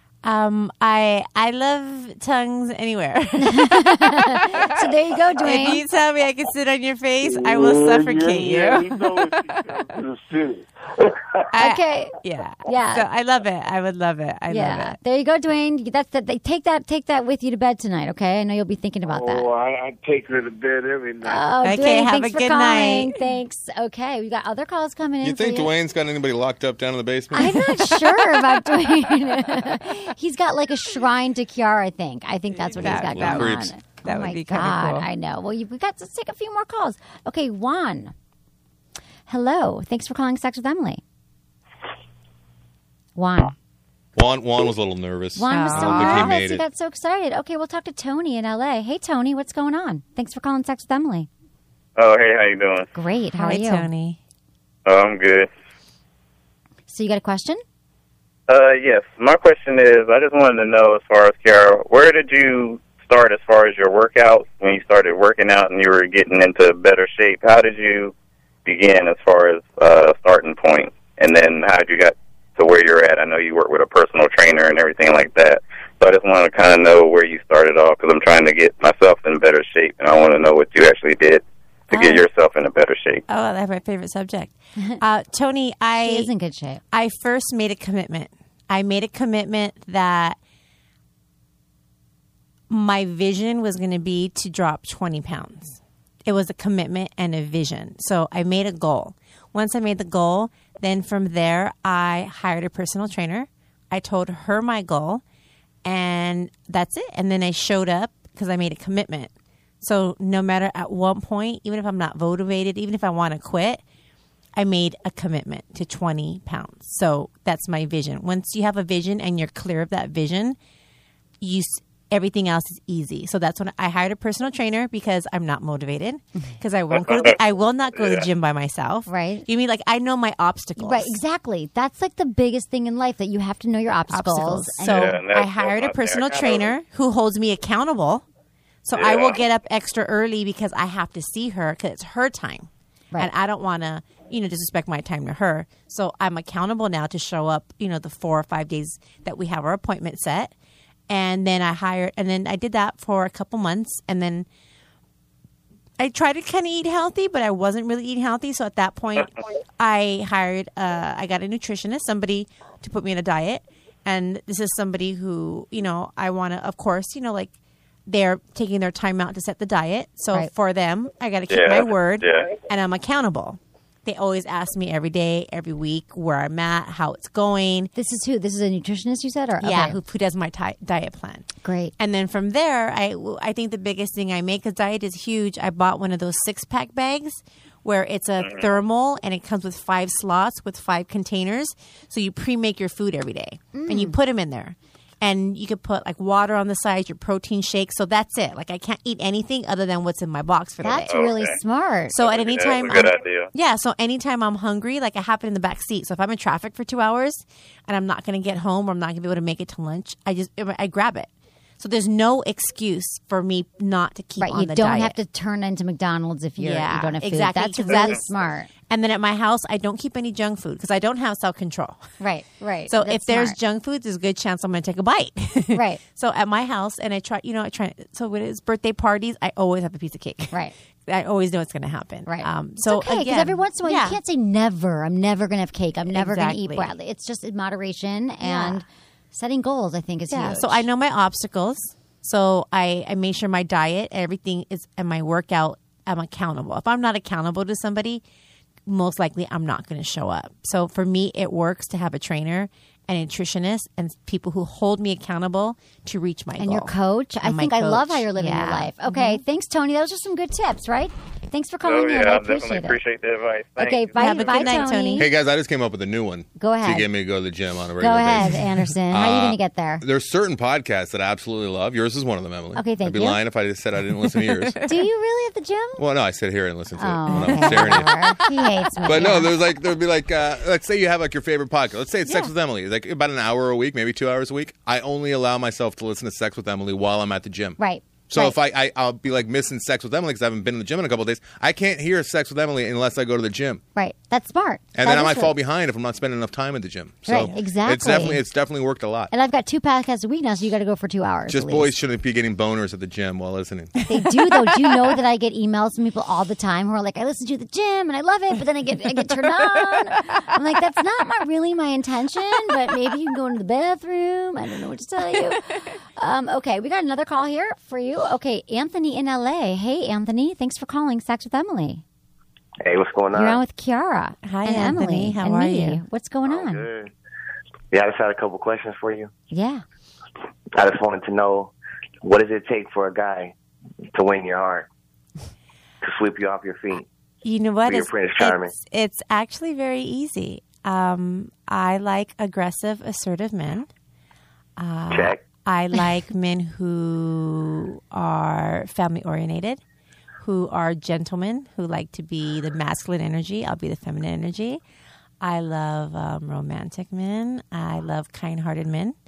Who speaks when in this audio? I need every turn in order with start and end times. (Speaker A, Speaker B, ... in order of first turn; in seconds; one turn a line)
Speaker A: 0.2-9.8
Speaker B: 3.4-5.8
Speaker C: 7.2-11.5
Speaker A: 11.5-15.0
Speaker B: 11.6-12.1
Speaker B: 12.7-13.1
Speaker B: 14.5-19.5
Speaker C: 19.1-21.4
Speaker B: 21.2-25.7
Speaker A: 21.6-23.1
Speaker D: 25.2-27.6
Speaker B: 27.3-38.1
Speaker A: 27.4-28.7
Speaker A: 32.7-35.1
Speaker D: 32.8-33.7
Speaker B: 39.3-41.0
Speaker B: 43.1-43.5
Speaker D: 44.1-46.6
Speaker B: 45.4-51.3
Speaker A: 45.5-46.4
Speaker E: 52.0-52.9
Speaker B: 52.9-53.9
Speaker A: 53.3-54.2
Speaker E: 54.9-55.5
Speaker B: 56.9-57.6
Speaker E: 58.5-68.1
Speaker E: 68.7-83.2
Speaker A: 81.9-82.2
Speaker A: 83.3-86.3
Speaker B: 86.0-86.8
Speaker A: 86.9-90.4
Speaker A: 92.7-105.2
Speaker A: 105.8-113.8
Speaker A: 114.5-120.6
Speaker A: 121.4-131.2
Speaker E: 126.9-127.3
Speaker E: 128.0-128.2
Speaker B: 129.1-129.5
Speaker B: 130.8-135.2
Speaker A: 134.1-138.2
Speaker E: 134.8-136.7
Speaker A: 138.8-150.5
Speaker E: 138.9-139.4
Speaker A: 151.1-154.4
Speaker A: 156.0-167.5
Speaker A: 168.1-177.9
Speaker E: 171.5-172.5
Speaker B: 177.9-180.0
Speaker A: 179.6-201.2
Speaker B: 181.6-181.9
Speaker E: 188.4-188.6
Speaker B: 193.7-194.2
Speaker B: 200.8-202.3
Speaker E: 201.1-201.6
Speaker A: 202.1-215.1
Speaker E: 202.2-203.5
Speaker B: 214.4-218.7
Speaker A: 216.6-218.2
Speaker A: 218.9-222.0
Speaker B: 222.2-223.6
Speaker A: 222.9-234.2
Speaker B: 225.7-226.0
Speaker B: 232.2-240.8
Speaker A: 236.1-236.9
Speaker A: 238.4-238.8
Speaker A: 240.3-248.2
Speaker A: 248.8-259.4
Speaker B: 256.6-263.0
Speaker E: 261.8-264.7
Speaker B: 263.8-265.3
Speaker A: 264.1-265.3
Speaker D: 265.2-274.8
Speaker B: 266.6-267.1
Speaker B: 268.0-270.0
Speaker B: 272.7-273.4
Speaker B: 274.8-276.0
Speaker D: 276.0-278.1
Speaker B: 277.0-279.5
Speaker A: 277.3-279.4
Speaker D: 279.1-293.8
Speaker B: 287.8-288.6
Speaker B: 293.9-295.5
Speaker D: 294.9-299.3
Speaker B: 297.2-298.4
Speaker A: 297.3-298.3
Speaker B: 299.3-301.9
Speaker D: 301.5-303.9
Speaker A: 304.0-305.1
Speaker B: 304.1-322.0
Speaker A: 309.6-310.4
Speaker F: 322.8-323.6
Speaker B: 323.3-326.9
Speaker A: 324.4-326.0
Speaker F: 326.4-327.1
Speaker F: 327.9-329.3
Speaker B: 329.5-329.8
Speaker F: 330.7-331.7
Speaker F: 332.2-333.5
Speaker F: 334.1-334.9
Speaker F: 336.0-337.1
Speaker A: 337.4-343.9
Speaker F: 337.8-338.7
Speaker A: 344.8-349.8
Speaker F: 345.1-345.4
Speaker A: 350.4-354.8
Speaker A: 355.4-359.1